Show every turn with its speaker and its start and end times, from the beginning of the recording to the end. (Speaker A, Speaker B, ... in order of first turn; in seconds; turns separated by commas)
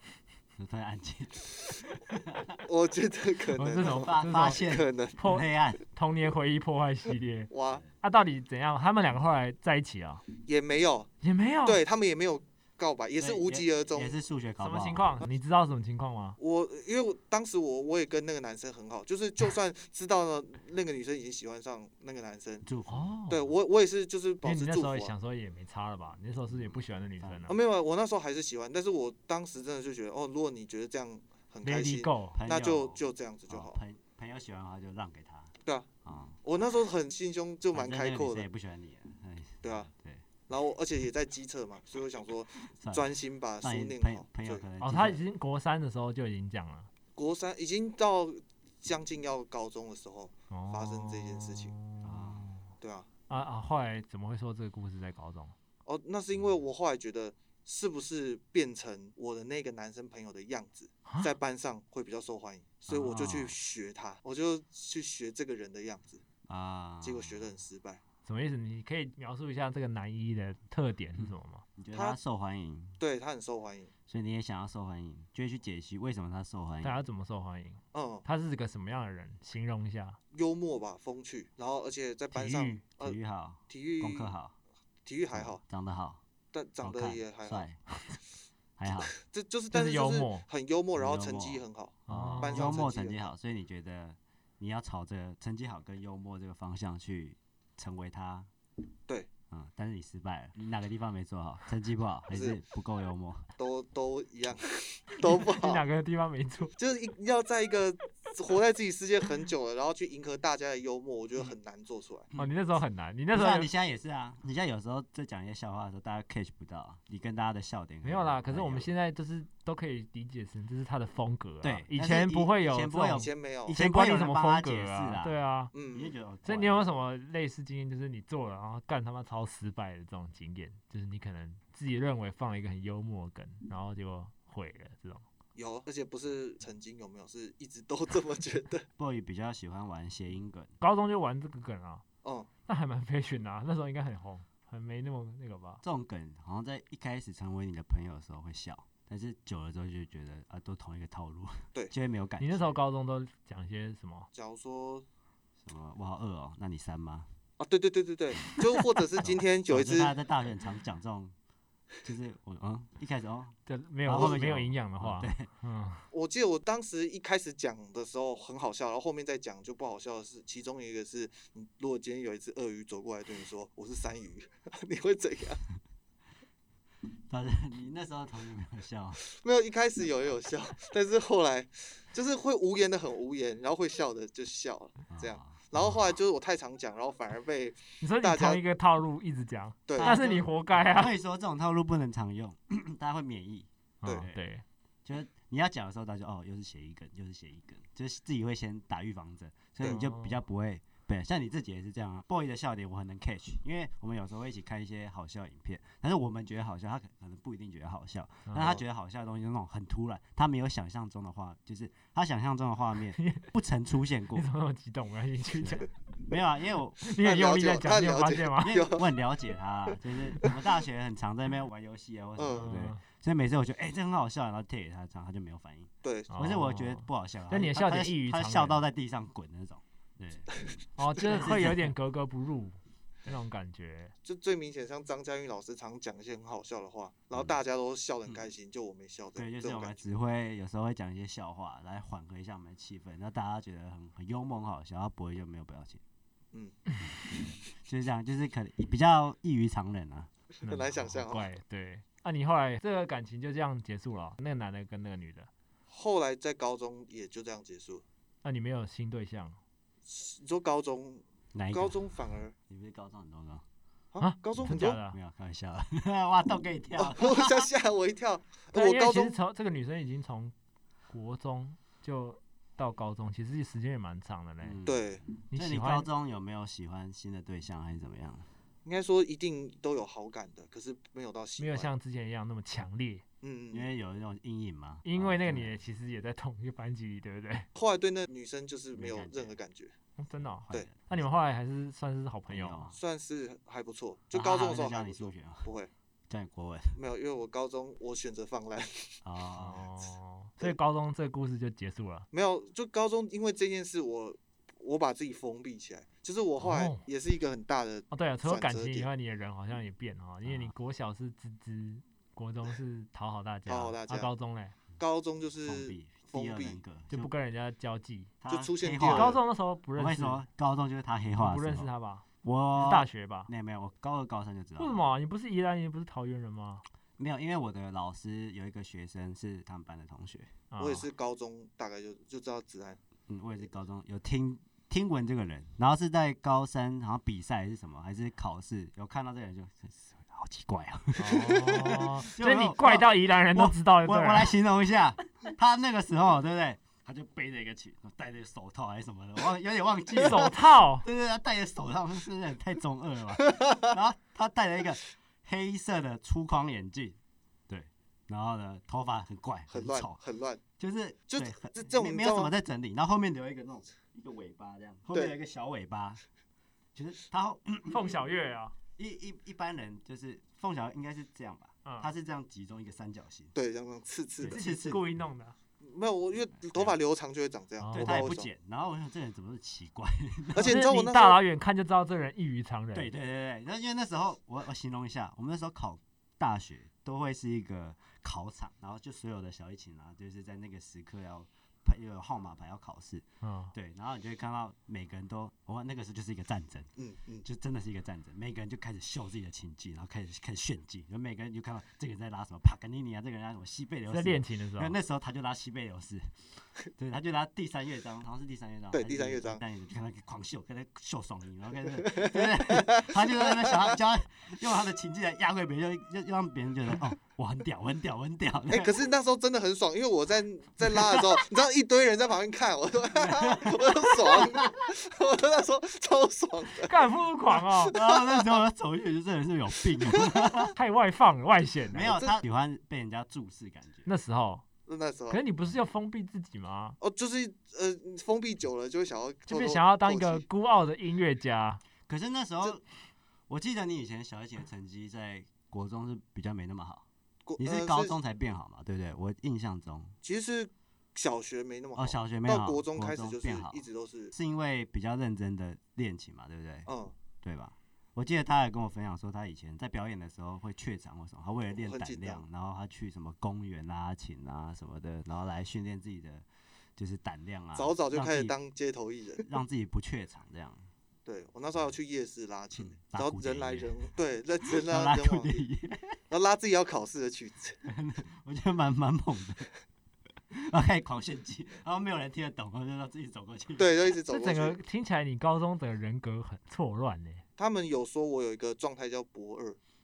Speaker A: 0.6-2.6, Speaker B: 2.6-5.2, Speaker C: 3.6-4.6, Speaker A: 3.8-5.8, Speaker C: 5.2-7.5, Speaker B: 7.5-7.8, Speaker C: 8.0-10.2, Speaker B: 10.4-11.1, Speaker C: 11.2-11.8, Speaker B: 11.7-14.2, Speaker A: 13.2-15.1, Speaker C: 14.6-16.4, Speaker B: 16.4-22.6, Speaker A: 22.6-23.1, Speaker C: 22.9-23.5, Speaker B: 23.3-25.1, Speaker C: 24.4-27.6, Speaker A: 26.6-27.5, Speaker B: 27.5-33.8, Speaker C: 31.6-32.4, Speaker A: 32.3-35.5, Speaker A: 36.0-36.4, Speaker B: 36.4-38.5, Speaker A: 37.7-40.2, Speaker B: 39.6-39.9, Speaker B: 40.5-44.6, Speaker A: 42.7-43.1, Speaker A: 43.6-45.2, Speaker C: 44.8-46.9, Speaker B: 47.2-51.8, Speaker C: 50.5-52.6, Speaker A: 52.0-52.4, Speaker B: 52.8-53.1, Speaker C: 53.3-55.5, Speaker B: 55.9-66.2, Speaker C: 61.1-61.3, Speaker A: 62.9-63.5, Speaker A: 66.5-67.4, Speaker B: 67.0-68.0, Speaker C: 68.2-71.6, Speaker A: 71.2-73.0, Speaker B: 73.0-73.9, Speaker A: 74.1-77.0, Speaker C: 76.8-80.2, Speaker B: 77.9-78.2, Speaker B: 80.3-83.2, Speaker C: 82.3-82.8, Speaker A: 83.0-84.5, Speaker B: 83.7-84.3, Speaker B: 85.1-85.6, Speaker A: 85.3-86.2, Speaker B: 86.5-87.7, Speaker A: 86.8-87.8, Speaker A: 88.8-89.1, Speaker B: 89.2-93.3, Speaker C: 89.7-90.5, Speaker A: 91.0-98.5, Speaker C: 92.1-92.7, Speaker A: 99.5-103.5, Speaker B: 102.3-102.6, Speaker B: 103.6-105.8, Speaker C: 105.2-106.7, Speaker B: 106.8-112.3, Speaker C: 112.4-113.7, Speaker A: 113.3-118.9, Speaker C: 118.0-125.7, Speaker A: 121.6-125.4, Speaker B: 123.1-123.8, Speaker B: 125.7-126.1, Speaker A: 125.9-126.9, Speaker C: 126.5-135.2, Speaker B: 135.6-138.8, Speaker A: 139.0-140.8, Speaker C: 140.8-142.0, Speaker C: 142.7-145.8, Speaker A: 145.8-152.8, Speaker C: 152.4-154.3, Speaker B: 154.3-155.1, Speaker A: 155.6-157.3, Speaker B: 157.6-160.1, Speaker A: 159.3-161.3, Speaker A: 162.0-165.5, Speaker C: 163.7-166.1, Speaker B: 166.1-175.6, Speaker A: 177.3-179.2, Speaker B: 179.4-188.6, Speaker A: 185.1-185.6, Speaker C: 188.0-191.2, Speaker B: 189.9-190.4, Speaker A: 190.0-193.7, Speaker C: 194.0-194.6, Speaker A: 195.1-214.5, Speaker C: 199.8-200.4, Speaker C: 213.2-213.5, Speaker C: 214.3-215.9, Speaker A: 215.6-217.1, Speaker C: 217.0-218.8, Speaker B: 217.2-219.1, Speaker A: 218.6-230.5, Speaker B: 222.4-222.8, Speaker C: 222.6-223.0, Speaker B: 226.0-226.3, Speaker C: 226.3-228.8, Speaker C: 231.0-234.1, Speaker A: 231.2-231.9, Speaker B: 234.2-240.0, Speaker A: 239.4-246.0, Speaker B: 246.5-246.8, Speaker A: 247.9-250.3, Speaker C: 250.7-255.5, Speaker B: 250.7-251.5, Speaker B: 255.9-258.0, Speaker C: 258.4-259.6, Speaker B: 260.1-262.5, Speaker A: 261.6-262.0, Speaker A: 262.7-263.6, Speaker B: 264.1-265.0, Speaker C: 264.2-265.2, Speaker A: 264.6-267.7, Speaker B: 267.0-269.4, Speaker C: 268.7-270.5, Speaker C: 271.1-274.8, Speaker A: 274.6-278.5, Speaker B: 274.9-275.2, Speaker C: 275.5-276.1, Speaker B: 278.9-281.9, Speaker C: 281.6-283.2, Speaker B: 283.4-283.9, Speaker A: 283.7-285.8, Speaker C: 285.0-287.7, Speaker B: 287.8-289.9, Speaker A: 288.9-289.6, Speaker C: 290.2-292.9, Speaker A: 290.7-291.0, Speaker A: 292.5-292.9, Speaker B: 293.0-295.9, Speaker A: 294.3-295.7, Speaker A: 296.3-297.0, Speaker B: 297.0-299.1, Speaker A: 299.2-299.8, Speaker C: 299.6-302.3, Speaker B: 302.3-309.1, Speaker C: 306.6-307.0, Speaker C: 308.1-314.8, Speaker A: 310.4-310.7, Speaker B: 313.7-314.3, Speaker B: 315.0-316.8, Speaker A: 315.7-317.3, Speaker C: 317.1-318.3, Speaker A: 318.4-319.4, Speaker B: 318.5-319.4, Speaker C: 319.0-320.4, Speaker A: 319.9-321.9, Speaker C: 321.4-322.2, Speaker A: 322.4-325.0, Speaker C: 322.8-323.5, Speaker C: 324.8-326.8, Speaker A: 327.2-330.5, Speaker C: 330.7-331.1, Speaker B: 330.8-333.0, Speaker A: 333.3-357.2, Speaker C: 341.2-344.5, Speaker C: 350.2-351.1, Speaker A: 357.7-360.2, Speaker B: 359.7-360.6, Speaker A: 360.8-366.2, Speaker B: 361.3-362.5, Speaker A: 366.9-368.1, Speaker C: 367.9-368.7, Speaker A: 369.0-373.5, Speaker B: 373.6-374.6, Speaker A: 374.4-375.0, Speaker C: 374.5-375.6, Speaker B: 375.8-378.5, Speaker A: 376.6-377.0, Speaker C: 377.8-378.2, Speaker A: 377.9-380.8, Speaker B: 380.5-381.4, Speaker C: 380.6-383.1, Speaker A: 382.9-396.9, Speaker C: 393.4-393.7, Speaker B: 397.0-397.4, Speaker A: 397.4-406.3, Speaker C: 404.1-404.9, Speaker A: 407.0-418.9, Speaker B: 408.9-409.6, Speaker B: 412.1-413.9, Speaker B: 418.7-428.6, Speaker A: 420.8-421.4, Speaker A: 423.1-424.7, Speaker C: 426.8-427.9, Speaker A: 427.9-430.8, Speaker B: 430.0-430.5, Speaker C: 430.8-432.1, Speaker A: 431.9-434.1, Speaker B: 432.1-432.4, Speaker C: 434.1-434.6, Speaker B: 434.9-435.4, Speaker C: 435.3-437.0, Speaker B: 437.0-440.4, Speaker C: 439.5-441.8, Speaker A: 442.1-442.9, Speaker A: 443.5-447.1, Speaker B: 447.5-448.1, Speaker A: 447.6-450.1, Speaker B: 450.2-454.3, Speaker A: 452.0-456.9, Speaker B: 456.9-457.1, Speaker A: 457.4-466.4, Speaker B: 461.8-462.4, Speaker A: 467.0-468.6, Speaker B: 467.8-469.5, Speaker A: 469.4-470.9, Speaker B: 471.3-475.6, Speaker A: 472.8-473.9, Speaker A: 474.7-476.2, Speaker B: 476.3-477.8, Speaker A: 477.8-479.7, Speaker A: 480.5-483.9, Speaker B: 483.8-484.8, Speaker C: 484.3-487.4, Speaker B: 487.6-489.8